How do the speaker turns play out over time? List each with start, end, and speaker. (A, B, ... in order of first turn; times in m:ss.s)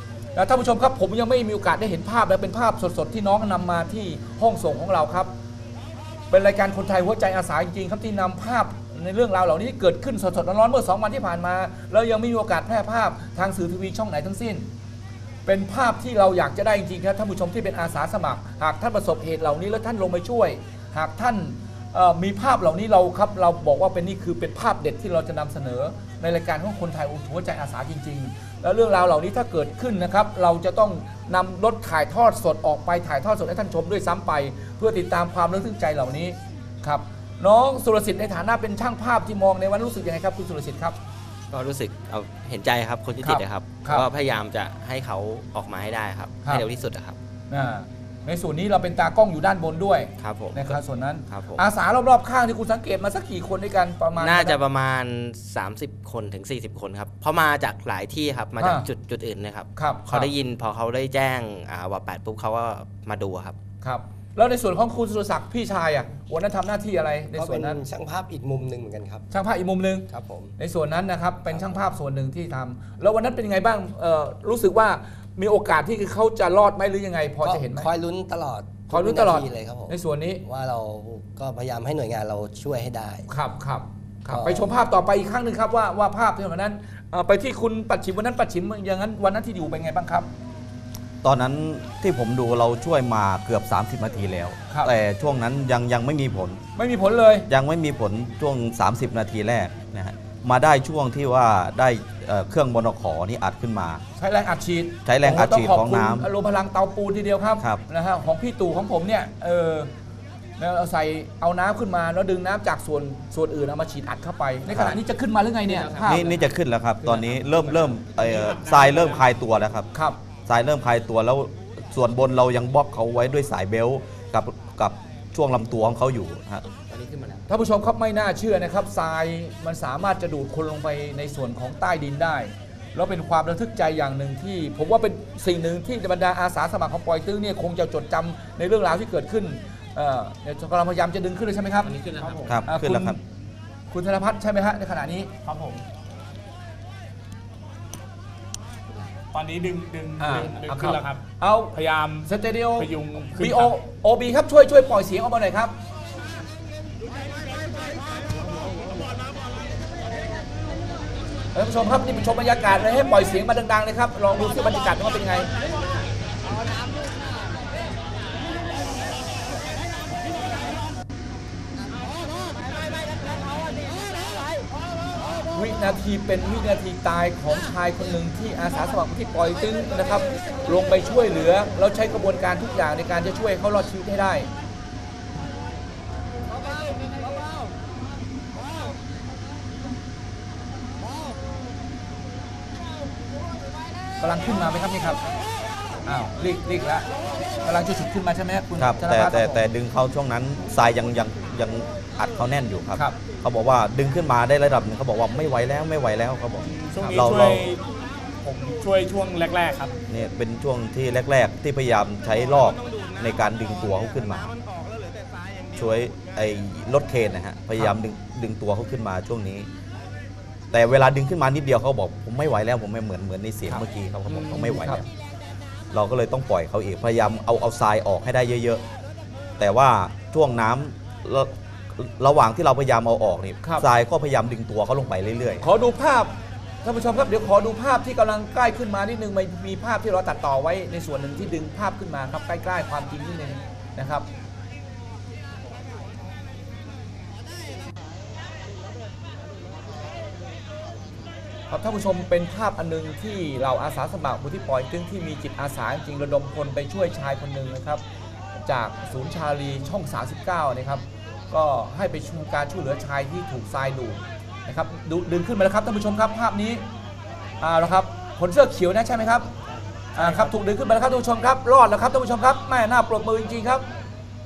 0:00.3-0:05.3 A
0:06.3-0:14.6 A
0:15.4-0:41.0 A
0:41.5-0:47.2 B
0:43.2-0:44.1 A
0:47.5-0:54.6 A
0:50.2-0:51.6 B
0:54.1-1:03.6 B
0:58.6-0:58.9 A
0:59.7-1:00.3 A
1:03.8-1:07.8 A
1:07.3-1:09.2 C
1:09.3-1:17.9 A
1:10.1-1:10.5 C
1:11.5-1:11.8 C
1:17.4-1:23.3 C
1:18.9-1:20.4 A
1:23.3-1:30.3 A
1:24.3-1:24.7 C
1:31.2-1:36.6 D
1:36.8-1:37.5 A
1:37.5-1:44.0 D
1:44.2-1:49.9 A
1:45.0-1:46.3 D
1:50.6-1:56.4 A
1:54.7-1:55.0 D
1:55.7-1:56.1 B
1:56.0-1:59.9 D
1:57.3-1:59.2 E
1:59.9-2:00.2 A
2:00.4-2:06.7 D
2:06.9-2:07.4 B
2:07.5-2:22.0 A
2:21.9-2:22.4 B
2:22.2-2:22.6 E
2:22.4-2:23.2 D
2:22.6-2:23.2 A
2:23.9-2:25.3 A
2:25.4-2:25.8 E
2:29.3-2:31.2 E
2:30.2-2:35.7 A
2:31.7-2:33.7 E
2:41.5-2:45.5 A
2:55.5-3:04.5 A
3:14.2-3:15.2 A
3:16.0-3:17.1 A
3:17.6-3:19.6 A
3:18.8-3:27.7 D
3:22.9-3:23.2 A
3:26.6-3:27.8 E
3:27.0-3:27.2 A
3:28.4-3:29.9 E
3:30.1-3:34.5 D
3:35.7-3:39.7 D
3:40.7-3:45.1 D
3:43.7-3:45.0 A
3:45.9-3:48.8 D
3:49.6-3:55.6 D
3:55.6-3:56.3 A
3:56.8-4:04.2 A
4:11.7-4:18.0 A
4:18.6-4:26.8 A
4:27.6-4:29.5 A
4:29.7-4:30.5 E
4:30.2-4:33.8 A